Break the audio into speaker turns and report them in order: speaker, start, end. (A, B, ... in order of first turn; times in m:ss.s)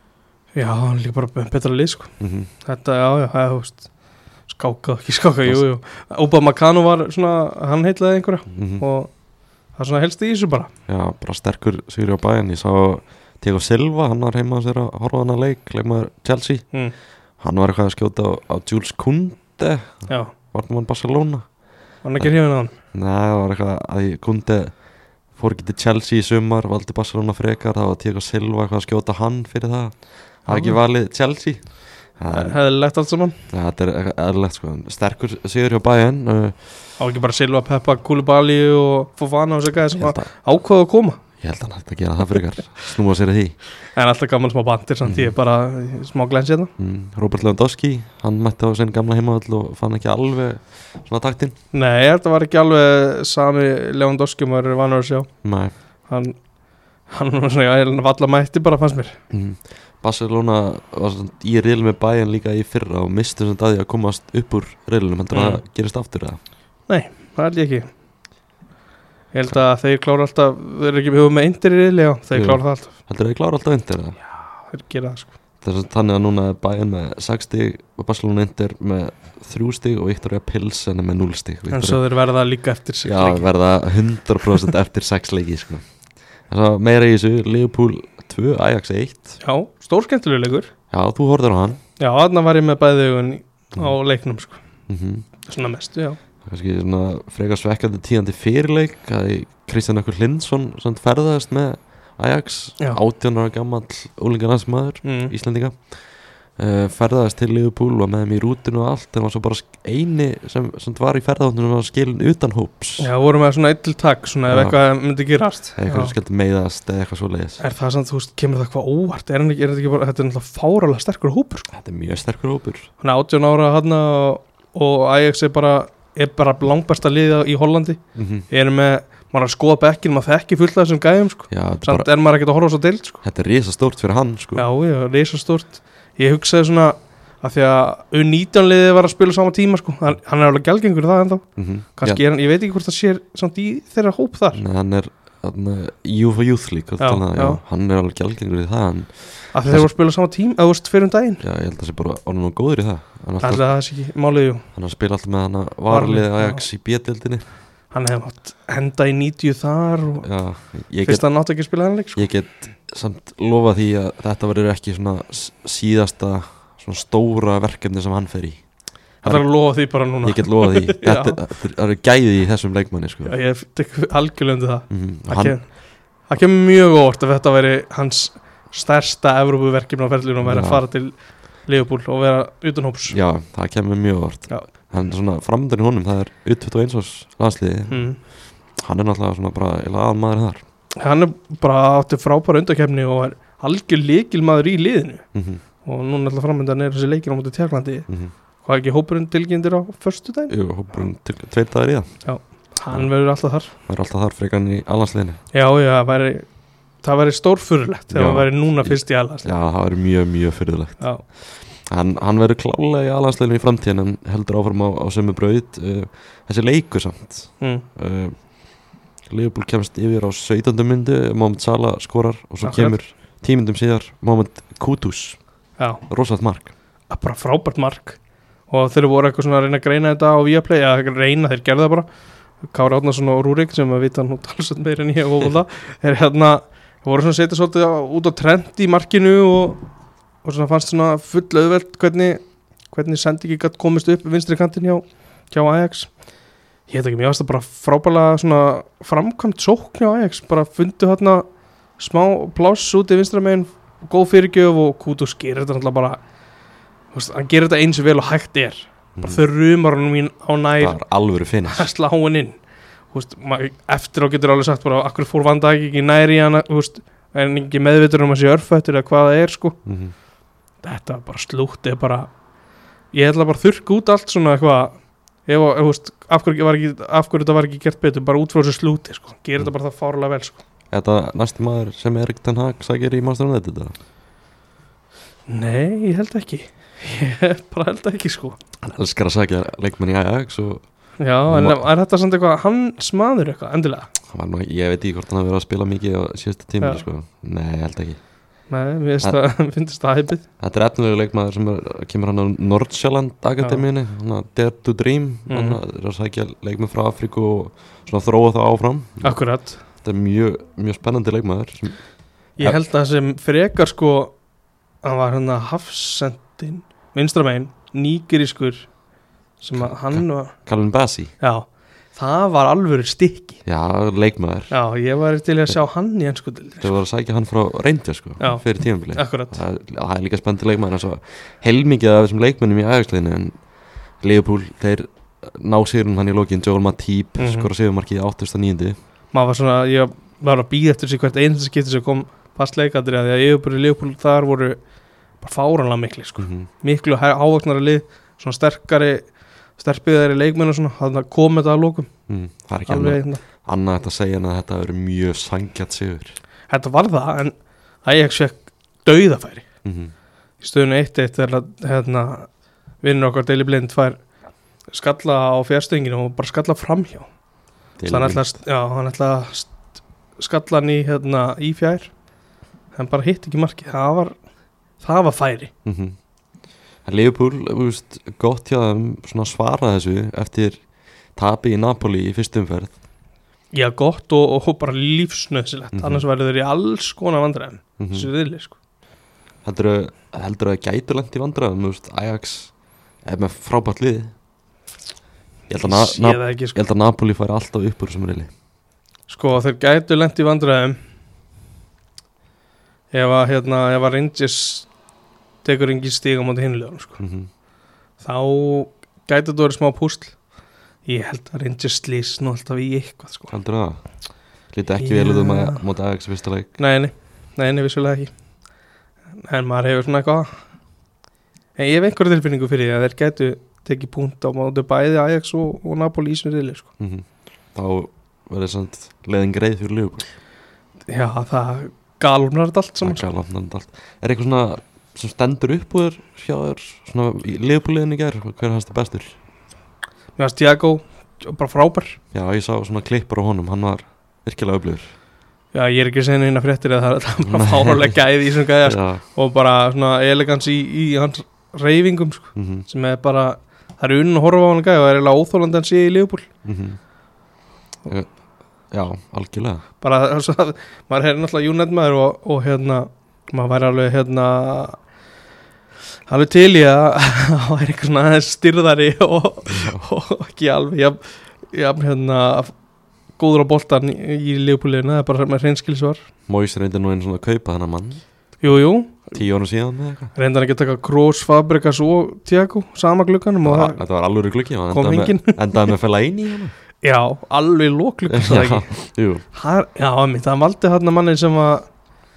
0:00.5-0:10.7 A
0:02.2-0:02.5 B
0:05.4-0:05.7 B
0:08.5-0:08.8 B
0:10.9-0:32.6 B
0:20.1-0:20.3 A
0:22.0-0:22.8 A
0:30.4-0:30.8 A
0:32.3-0:33.4 A
0:33.5-0:36.8 B
0:37.0-0:41.2 A
0:40.0-0:40.3 B
0:41.4-0:43.6 B
0:43.8-0:46.7 A
0:45.0-0:45.3 B
0:46.8-0:51.6 B
0:51.7-0:59.2 A
0:55.4-0:55.7 B
0:59.3-1:06.4 B
1:05.3-1:05.6 A
1:06.8-1:07.9 A
1:09.3-1:12.9 A
1:12.3-1:14.2 B
1:14.2-1:15.3 A
1:15.6-1:22.0 B
1:21.7-1:23.5 A
1:23.0-1:29.4 B
1:29.4-1:30.7 A
1:30.9-1:31.8 B
1:32.0-1:34.9 A
1:34.9-1:35.3 B
1:35.4-1:36.2 A
1:36.4-1:53.1 B
1:45.0-1:45.3 A
1:53.0-1:56.1 A
1:54.5-1:54.9 B
1:55.8-1:57.6 B
1:57.6-2:01.7 A
2:01.7-2:02.9 B
2:03.0-2:13.2 A
2:08.1-2:08.5 B
2:11.5-2:12.1 B
2:13.2-2:14.6 B
2:14.6-2:24.6 A
2:21.6-2:22.2 B
2:24.5-2:29.9 B
2:27.0-2:27.6 A
2:29.5-2:31.4 A
2:31.4-2:33.7 B
2:33.4-2:34.6 A
2:34.7-2:37.4 B
2:35.9-2:36.6 A
2:37.9-2:42.2 A
2:40.2-2:41.5 B
2:42.1-2:53.3 B
2:49.2-2:51.4 A
2:53.2-3:03.2 A
2:54.9-2:55.6 B
3:00.4-3:00.8 B
3:03.1-3:10.6 B
3:07.9-3:08.2 A
3:11.0-3:21.0 A
3:15.3-3:15.6 B
3:18.1-3:18.3 B
3:20.5-3:25.4 B
3:22.2-3:23.7 A
3:25.5-3:29.5 A
3:28.1-3:46.7 B
3:31.0-3:31.2 A
3:37.6-3:37.8 A
3:42.6-3:43.0 A
3:45.8-3:46.0 A
3:47.1-3:59.9 A
4:00.4-4:16.2 A
4:17.1-4:21.0 A
4:19.1-4:19.4 B
4:20.8-4:21.9 B
4:21.6-4:29.8 A
4:29.8-4:30.1 B
4:30.8-4:32.4 A
4:33.1-4:40.6 A
4:40.9-4:43.9 B
4:45.5-4:48.6 A
4:48.8-4:51.8 B
4:51.2-4:54.1 A
4:54.3-4:58.2 B
4:58.7-5:00.4 A
5:00.6-5:12.8 B
5:05.5-5:05.8 A
5:09.2-5:09.8 A
5:12.6-5:14.4 A
5:15.0-5:19.0 A
5:19.6-5:20.7 A
5:19.7-5:21.3 B
5:21.4-5:23.6 A
5:23.6-5:24.7 B
5:24.7-5:27.0 A
5:26.8-5:39.0 B
5:28.4-5:29.6 A
5:37.4-5:37.7 A
5:39.3-5:44.8 A
5:45.4-5:52.3 A
5:46.4-5:46.7 B
5:52.3-5:56.4 B
5:52.8-5:53.4 A
5:56.7-5:59.7 A
5:59.8-6:00.1 B
6:00.6-6:04.3 A
6:04.9-6:07.3 A
6:08.0-6:08.6 B
6:08.0-6:12.3 A
6:12.9-6:14.4 A
6:15.0-6:15.7 A
6:15.8-6:16.2 B
6:17.0-6:23.0 B
6:23.7-6:28.8 A
6:25.9-6:26.2 B
6:28.0-6:28.3 B
6:29.6-6:34.3 B
6:35.7-6:38.5 B
6:35.8-6:36.8 A
6:39.3-6:41.0 A
6:43.1-6:44.9 A
6:45.6-6:47.2 A
6:47.2-6:47.5 B
6:48.2-6:50.5 A
6:51.0-6:53.6 A
6:53.5-6:56.8 B
6:55.0-6:55.8 A
6:56.8-6:58.3 A
6:59.4-7:00.6 A
7:01.7-7:06.9 A
7:07.0-7:10.3 B
7:11.1-7:13.3 A
7:13.0-7:19.4 B
7:20.4-7:22.2 A
7:22.3-7:25.1 B
7:25.7-7:36.5 A
7:27.4-7:28.2 B
7:28.8-7:29.2 B
7:32.5-7:32.8 B
7:36.6-7:37.0 B
7:38.1-7:39.8 B
7:40.0-7:45.1 A
7:46.2-7:56.2 A
7:49.7-7:50.0 B
7:56.5-7:58.2 B
7:58.6-7:59.4 A
7:59.3-8:00.3 B
8:00.3-8:04.0 A
8:03.6-8:06.7 B
8:04.9-8:05.9 A
8:07.0-8:12.0 A
8:08.3-8:09.4 B